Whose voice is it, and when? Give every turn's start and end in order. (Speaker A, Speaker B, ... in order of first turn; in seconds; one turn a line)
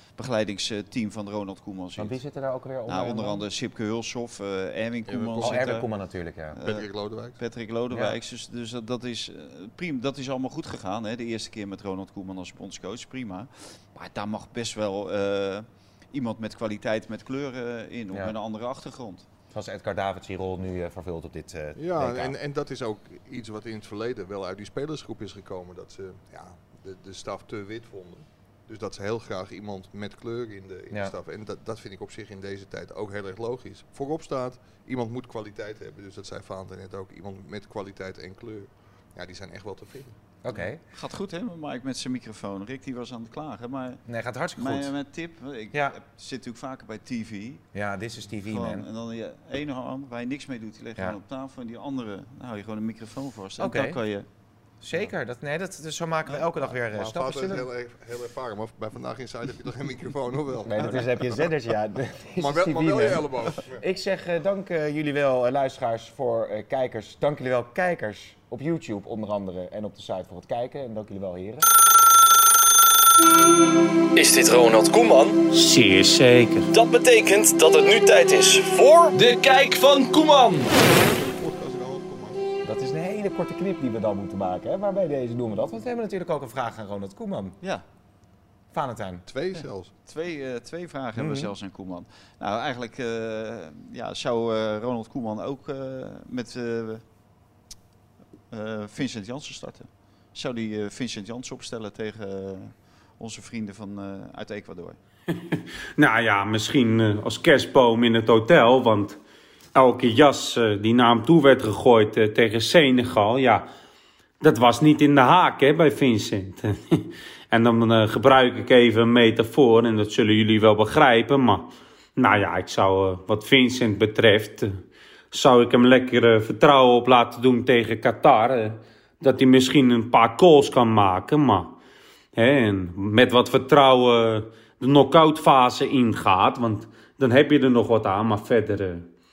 Speaker A: 0.2-2.2
Speaker B: 2.0-3.5
Speaker A: 2.9-5.9
Speaker C: 5.1-5.8
Speaker B: 5.4-6.6
Speaker A: 6.5-6.9
Speaker C: 6.6-7.4
Speaker A: 7.4-19.3
Speaker B: 7.9-8.2
Speaker B: 19.5-22.4
Speaker C: 21.8-40.2
Speaker B: 40.4-40.8
Speaker A: 40.5-44.0
Speaker B: 44.1-44.9
Speaker A: 44.6-47.6
Speaker B: 45.7-46.0
Speaker B: 47.7-48.9
Speaker A: 48.3-54.3
Speaker B: 53.6-54.0
Speaker B: 54.8-57.7
Speaker C: 56.7-61.1
Speaker B: 60.6-71.7
Speaker C: 62.4-63.9
Speaker D: 74.2-75.4
Speaker E: 75.5-76.7
Speaker D: 76.7-80.8
Speaker C: 80.8-82.4
Speaker B: 82.6-87.6
Speaker B: 88.7-89.2
Speaker C: 89.3-89.9
Speaker A: 90.1-97.0
Speaker B: 91.2-91.5
Speaker A: 98.5-105.0
Speaker E: 105.5-109.2
Speaker E: 109.8-113.7
Speaker E: 114.4-124.8
Speaker E: 125.3-131.8
Speaker E: 132.3-139.1